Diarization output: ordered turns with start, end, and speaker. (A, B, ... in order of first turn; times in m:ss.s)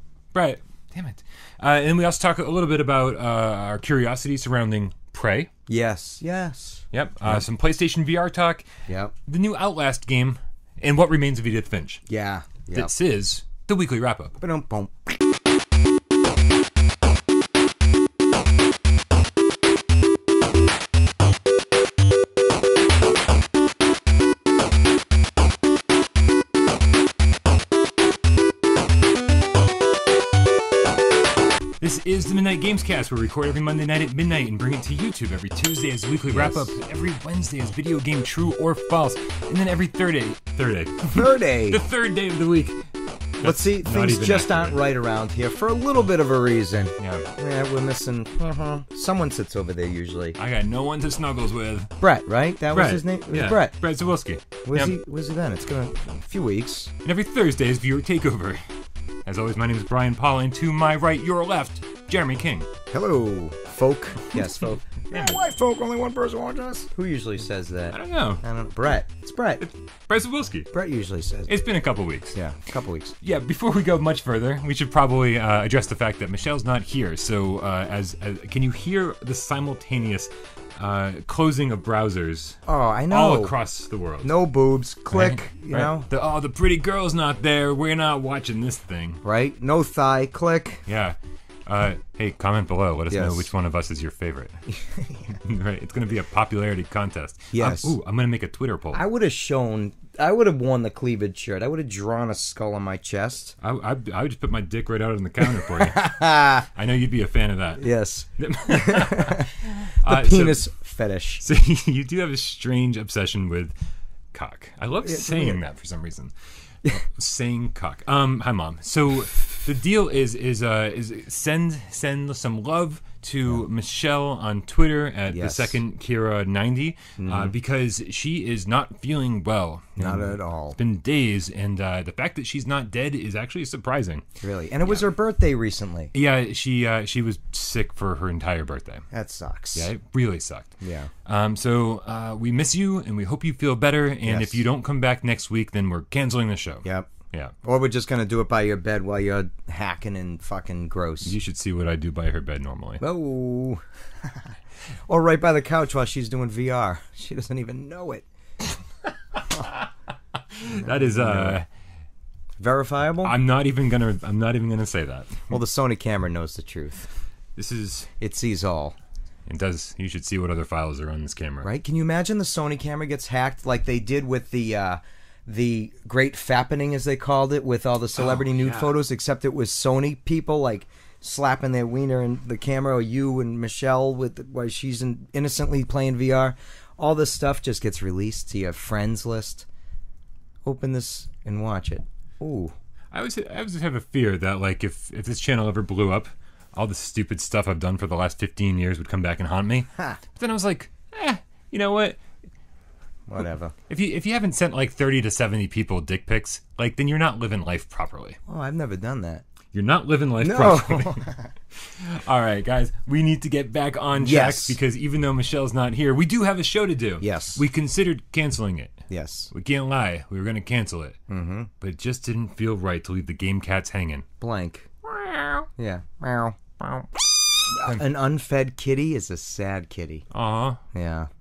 0:00.3-0:05.5 A
0:05.7-0:07.4 B
0:06.9-0:08.7 A
0:08.9-0:09.1 B
0:09.3-0:12.0 A
0:12.1-0:12.9 B
0:12.7-0:14.4 A
0:14.4-0:15.1 B
0:31.8-0:42.8 A
0:36.3-0:36.7 B
0:41.1-0:41.8 B
0:43.4-0:44.8 A
0:43.4-0:50.4 B
0:47.0-0:47.3 A
0:50.4-0:51.9 A
0:52.0-0:53.8 B
0:52.7-0:55.0 A
0:54.6-0:56.9 B
0:57.0-0:58.6 A
0:59.3-1:02.7 A
1:02.9-1:09.6 B
1:04.3-1:05.4 A
1:07.9-1:08.4 A
1:09.6-1:10.7 A
1:10.7-1:11.6 B
1:11.5-1:12.4 A
1:12.3-1:13.1 B
1:13.2-1:22.6 A
1:22.7-1:23.6 B
1:23.1-1:24.3 A
1:24.2-1:26.1 B
1:25.1-1:29.2 A
1:29.2-1:30.8 B
1:30.9-1:34.6 A
1:33.1-1:33.5 B
1:34.8-1:35.4 B
1:35.4-1:39.0 A
1:37.5-1:38.0 B
1:38.9-1:43.6 B
1:43.6-1:50.6 A
1:45.4-1:46.7 B
1:47.8-1:51.4 B
1:51.4-1:53.8 A
1:54.3-1:56.3 A
1:55.0-1:55.6 B
1:56.8-2:14.2 A
2:05.3-2:05.8 B
2:07.2-2:07.6 B
2:10.0-2:10.8 B
2:14.4-2:16.1 B
2:16.1-2:19.1 A
2:19.1-2:19.9 B
2:19.8-2:27.5 A
2:20.8-2:21.1 B
2:24.2-2:24.6 B
2:26.8-2:27.1 B
2:27.6-2:31.3 B
2:31.2-2:33.0 A
2:33.0-2:34.5 B
2:35.1-2:38.3 B
2:39.4-2:39.9 A
2:40.5-2:41.7 A
2:40.8-2:41.6 B
2:42.6-2:43.4 B
2:43.2-2:45.5 A
2:45.5-2:47.1 B
2:47.6-2:48.1 A
2:48.2-2:49.0 B
2:49.5-2:51.7 A
2:51.6-3:09.7 B
2:58.2-2:58.9 A
3:10.6-3:12.7 B
3:13.1-3:22.2 A
3:23.3-3:23.7 B
3:23.9-3:28.4 A
3:28.5-3:29.4 B
3:29.7-3:39.0 A
3:30.4-3:31.5 B
3:34.2-3:34.8 B
3:37.2-3:37.6 B
3:39.1-3:39.5 B
3:39.5-3:41.2 A
3:41.3-3:41.7 B
3:41.8-3:44.2 A
3:44.4-3:44.9 B
3:45.0-3:45.7 A
3:45.8-3:47.1 B
3:47.7-3:50.2 B
3:50.3-3:50.8 A
3:50.9-3:51.3 B